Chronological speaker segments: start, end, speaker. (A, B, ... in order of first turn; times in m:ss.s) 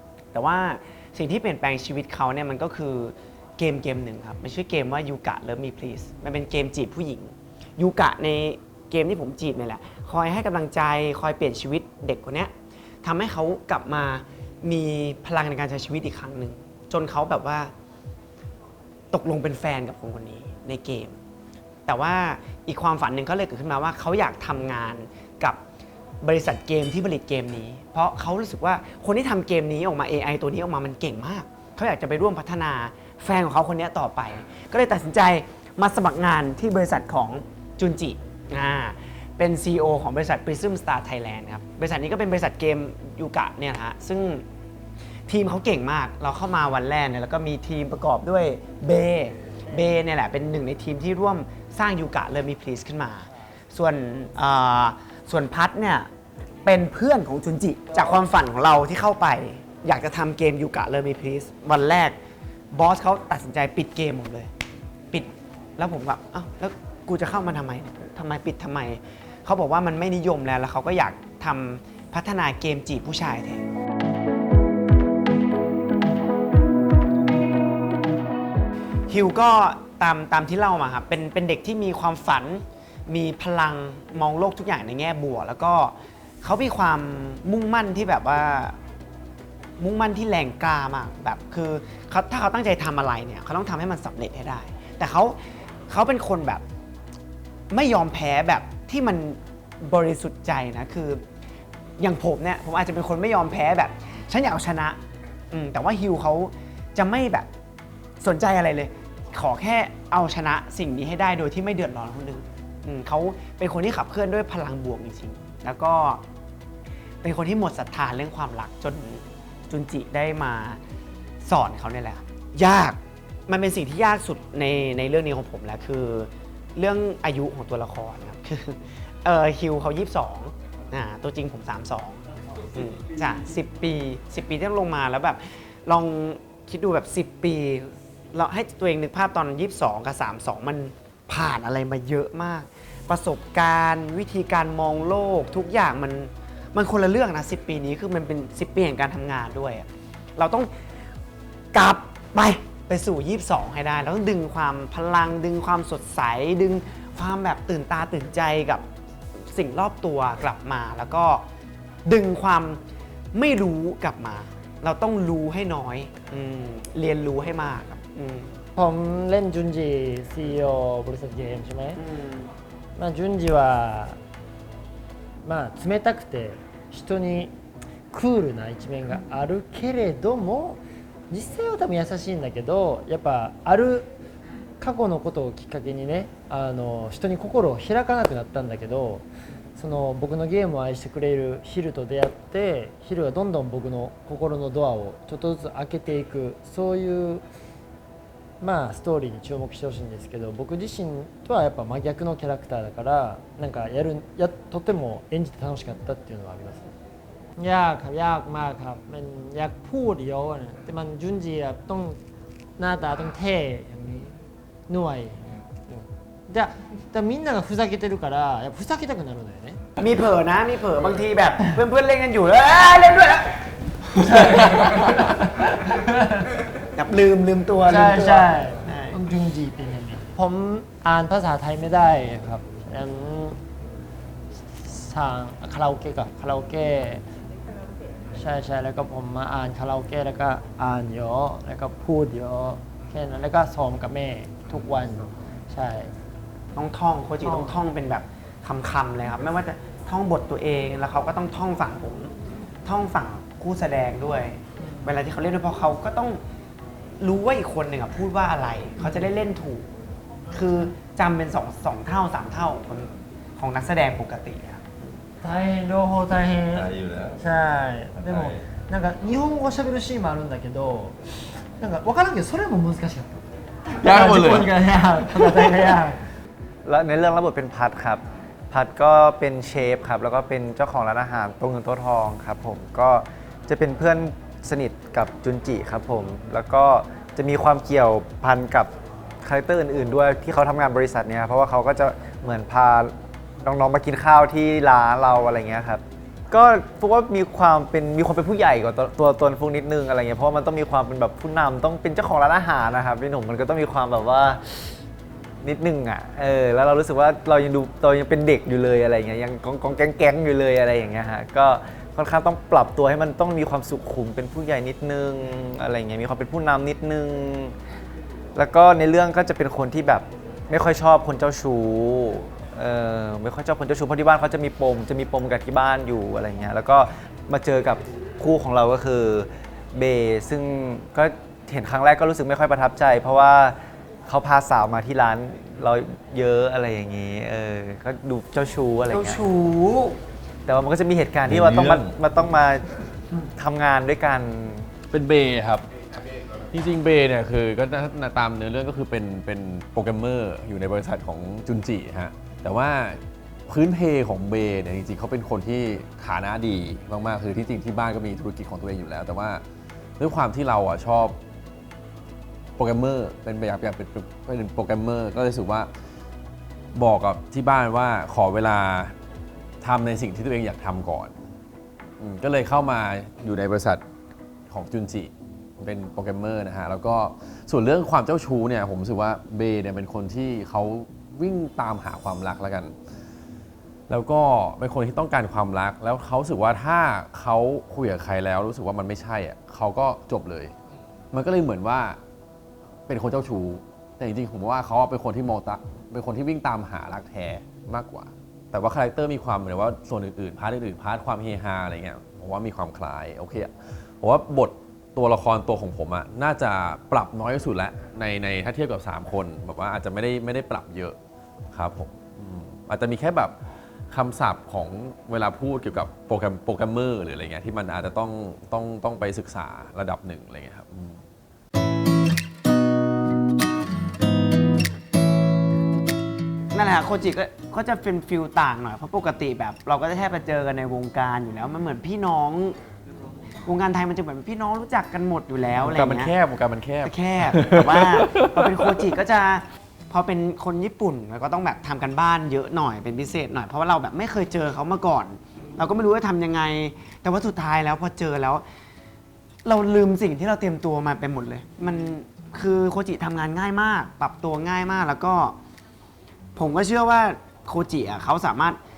0:00.3-0:17.7 A
0:19.1-0:21.2 A
0:21.9-0:25.6 A
0:26.2-0:44.4 A
0:45.3-0:56.1 A
0:56.6-1:02.2 A
1:02.7-1:04.5 A
1:05.1-1:13.6 A
1:19.1-1:28.8 A
1:29.8-1:35.4 A
1:35.9-1:36.6 A
1:37.7-1:41.2 A
1:42.0-1:45.0 A
1:45.5-1:47.5 A
1:48.2-1:56.2 A
1:57.2-2:00.8 A
2:01.4-2:12.2 A
2:12.7-2:30.7 A
2:31.7-2:41.4 A
2:42.0-2:42.8 A
2:43.3-2:48.6 A
2:48.8-2:52.0 B
2:52.0-2:52.5 A
2:53.0-2:54.2 B
2:55.4-2:57.5 B
2:58.1-3:04.1 B
3:04.8-3:17.4 B
3:18.6-3:26.8 B
3:27.6-3:32.2 B
3:32.8-3:39.8 B
3:40.0-3:43.6 A
3:44.2-3:45.3 A
3:44.3-3:45.3 B
3:45.9-3:46.4 B
3:46.9-3:49.2 A
3:47.8-3:53.6 B
3:54.7-3:57.2 B
3:58.3-4:06.1 B
4:06.7-4:12.3 A
4:07.4-4:07.7 B
4:12.8-4:16.4 A
4:17.2-4:19.9 A
4:20.5-4:24.8 A
4:25.4-4:31.2 B
4:26.7-4:27.4 C
4:28.2-4:28.6 C
4:31.8-4:36.2 B
4:34.0-4:35.8 C
4:36.8-4:48.9 D
4:49.4-5:05.0 D
5:05.6-5:17.8 D
5:18.5-5:39.4 D
5:39.1-5:40.2 A
5:40.7-5:42.9 D
5:41.5-5:42.1 C
5:43.5-5:44.9 D
5:45.1-5:45.9 C
5:46.7-5:59.6 C
6:00.2-6:01.4 C
6:02.8-6:05.9 C
6:06.9-6:09.2 C
6:09.8-6:11.3 C
6:12.2-6:14.0 C
6:14.7-6:22.9 C
6:24.1-6:30.7 C
6:31.3-6:32.2 C
6:33.1-6:51.2 C
6:51.7-6:53.6 C
6:54.1-7:01.2 C
7:06.7-7:12.8 A
7:13.6-7:16.3 A
7:15.8-7:19.1 C
7:17.0-7:28.6 A
7:29.6-7:35.6 A
7:36.6-7:38.8 A